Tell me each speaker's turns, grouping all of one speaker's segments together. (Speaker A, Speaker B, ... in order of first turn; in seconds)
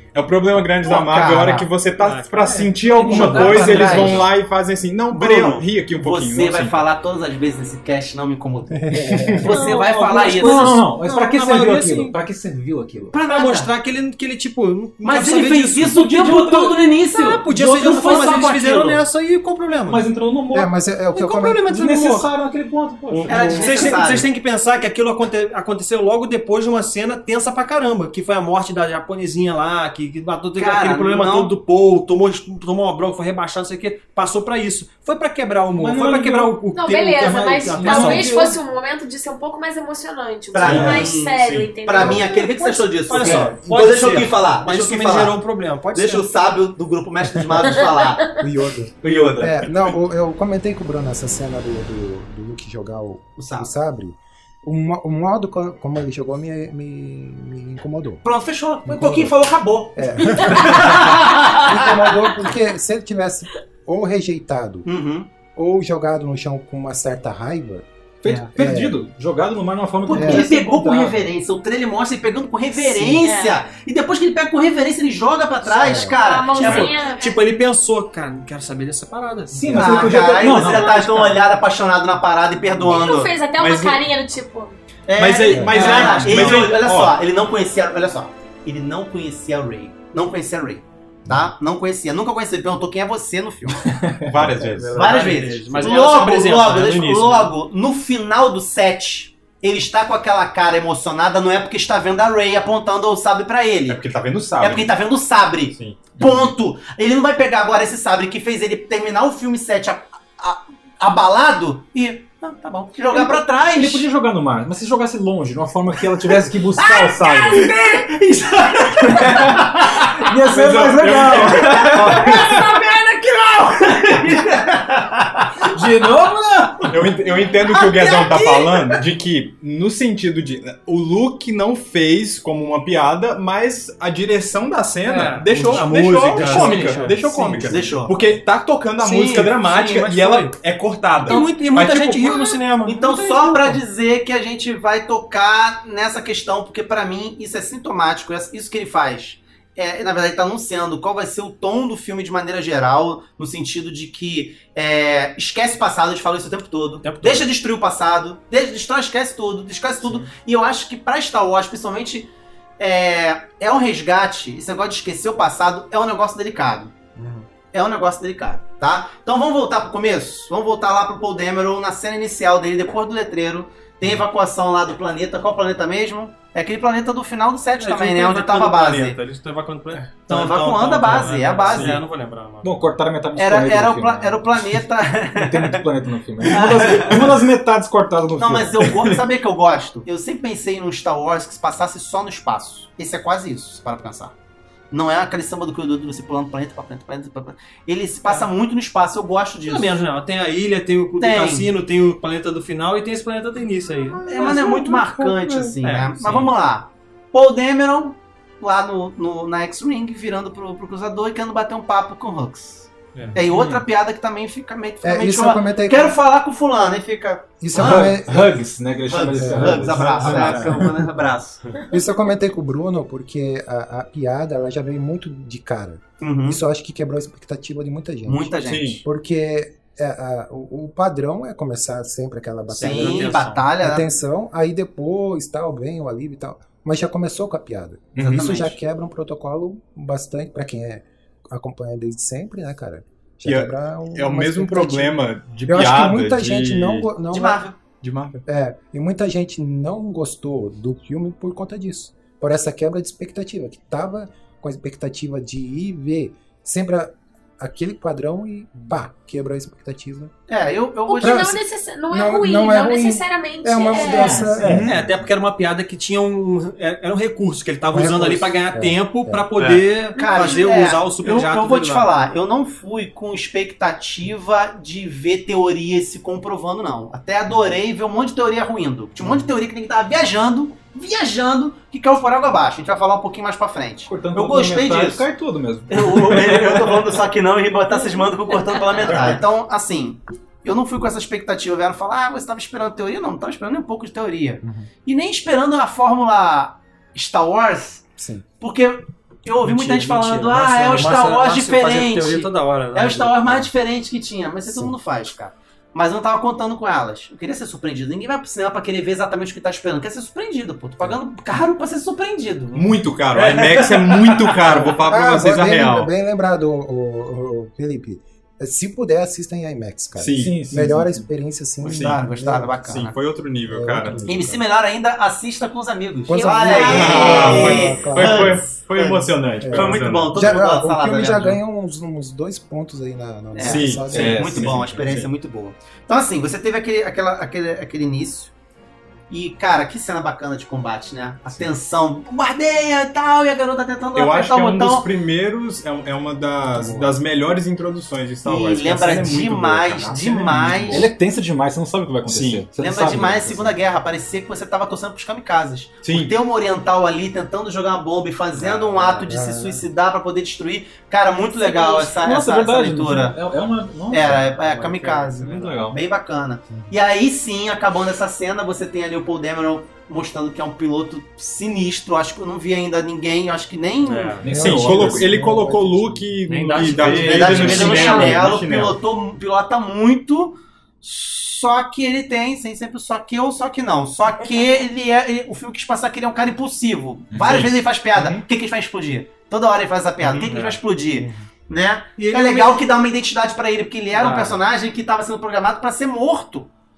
Speaker A: 0.1-6.8, 41.3-41.8, 83.5-84.0, 85.2-87.2, 94.3-95.0, 103.9-104.9, 105.7-106.2, 120.5-122.6, 126.8-142.4, 228.6-229.0, 243.4-247.2, 247.9-248.4, 312.7-316.1, 320.2-320.7, 321.9-322.3, 322.8-324.4, 326.8-330.4, 333.6-335.3, 344.1-351.1, 352.2-352.7, 356.0-356.4, 374.5-379.0, 387.4-387.7
Speaker B: 0.8-1.7, 3.1-4.2, 5.1-10.9, 13.1-13.7, 15.0-19.0, 23.3-24.2, 30.6-31.5, 40.5-45.4, 45.9-48.4, 53.4-53.7, 58.2-61.7, 64.8-65.3, 68.3-68.5, 70.1-76.9, 79.7-83.4, 85.1-93.9, 95.0-104.0, 104.6-114.1, 116.1-125.6, 127.6-129.0, 136.3-136.9, 137.7-138.2, 142.8-167.0, 167.7-179.2, 180.3-182.0, 183.4-185.8, 186.4-187.5, 188.4-194.3, 194.9-200.0, 201.2-201.7, 204.3-218.4, 219.1-221.8, 226.2-226.6, 228.3-229.0, 232.8-234.1, 238.2-238.8, 247.3-247.8, 260.5-261.6, 270.2-285.3, 285.9-298.1, 298.6-314.9, 321.8-323.2, 324.2-331.6, 333.5-338.5, 339.3-345.1, 348.4-351.1, 352.8-363.4, 364.1-374.4, 377.0-396.7
Speaker C: 2.0-4.2, 9.4-12.2, 13.3-16.4, 17.1-20.1, 21.1-22.3, 23.1-38.6, 42.6-46.3, 76.5-80.0, 85.8-86.7, 94.8-97.5, 135.0-137.8, 139.0-140.5, 141.2-143.8, 157.0-157.5, 167.2-167.5, 177.8-182.8, 199.7-206.5, 232.7-233.7, 264.6-272.1, 299.6-303.7, 358.6-359.3, 364.6-366.0, 374.0-374.5, 376.5-378.4, 388.2-388.4, 390.2-391.4, 392.2-392.9, 394.1-394.6
Speaker D: 3.0-4.2, 10.3-13.2, 15.9-16.8, 17.5-18.4, 19.9-20.8, 21.6-23.7, 35.8-36.6, 37.7-38.4, 40.6-41.1, 43.2-43.6, 49.0-49.6, 68.2-71.3, 79.6-81.4, 94.0-94.8, 113.6-117.7, 120.2-121.9, 125.7-126.8, 182.6-184.8, 185.4-188.9, 213.4-213.8, 217.8-220.6, 264.6-264.9, 284.1-286.7, 320.4-321.3, 334.1-334.8, 350.9-353.8, 362.0-364.6, 365.4-366.0, 374.4-375.3
Speaker E: 8.8-9.5, 20.5-21.8, 48.4-58.2, 58.9-59.4, 59.9-64.9, 65.6-67.9, 68.4-69.0, 70.1-70.5, 72.8-73.2, 75.7-76.2, 215.0-216.2, 217.6-220.3, 221.9-228.5, 229.0-247.6, 248.5-260.3, 261.2-261.6, 262.1-264.9, 267.9-269.5, 279.2-279.5, 294.6-294.9, 298.2-298.4, 304.7-304.9, 314.9-322.8, 323.7-324.6, 326.3-328.7, 329.6-334.9, 359.3-359.8, 374.4-376.3
Speaker F: 36.7-42.8, 73.2-73.6, 75.8-77.4, 80.6-80.9, 82.8-84.8, 261.1-264.5, 270.2-270.6, 326.3-327.6, 361.6-362.0